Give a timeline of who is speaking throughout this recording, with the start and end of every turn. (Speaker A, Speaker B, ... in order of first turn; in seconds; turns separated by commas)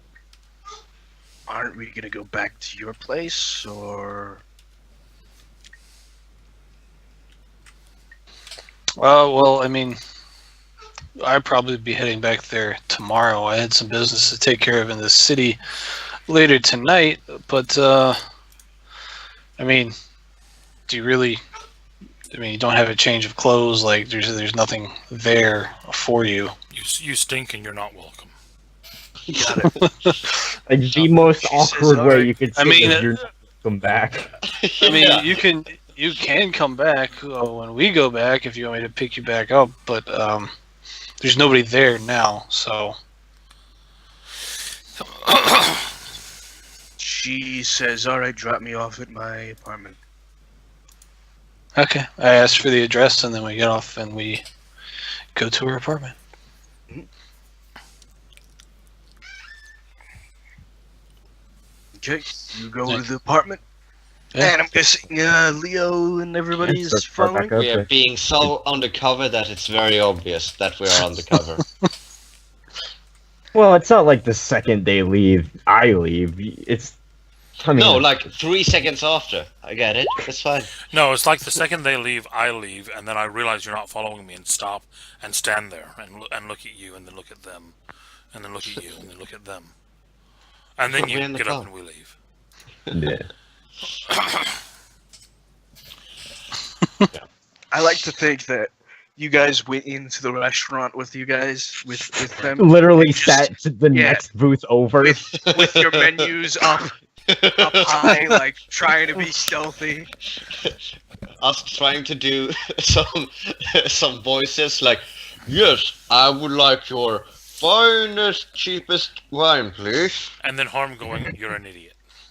Speaker A: 1.5-4.4, Speaker B: 9.0-10.0, Speaker B: 11.2-15.6, Speaker B: 16.3-18.2, Speaker B: 19.6-19.9, Speaker B: 20.9-21.4, Speaker B: 22.3-26.5, Speaker C: 26.7-28.3, Speaker A: 29.3-29.8, Speaker B: 29.3-30.2, Speaker D: 30.7-34.3, Speaker A: 31.3-32.4, Speaker B: 32.5-33.1, Speaker E: 34.6-35.4, Speaker B: 34.8-40.5, Speaker B: 41.2-43.0, Speaker B: 45.2-45.5, Speaker A: 47.0-50.0, Speaker B: 51.8-54.4, Speaker B: 55.3-56.1, Speaker A: 62.0-63.6, Speaker A: 64.4-67.5, Speaker D: 66.6-67.9, Speaker E: 67.5-71.6, Speaker D: 73.5-77.0, Speaker D: 77.6-78.1, Speaker E: 77.7-80.8, Speaker C: 80.9-87.8, Speaker C: 88.3-89.7, Speaker C: 90.8-92.1, Speaker E: 90.9-91.7, Speaker D: 92.9-93.3, Speaker C: 94.1-94.4, Speaker A: 97.7-104.2, Speaker D: 102.5-105.2, Speaker A: 105.0-106.9, Speaker E: 105.3-106.3, Speaker E: 107.3-108.1, Speaker A: 107.5-110.1, Speaker B: 108.1-108.4, Speaker E: 111.4-120.3, Speaker C: 120.4-122.0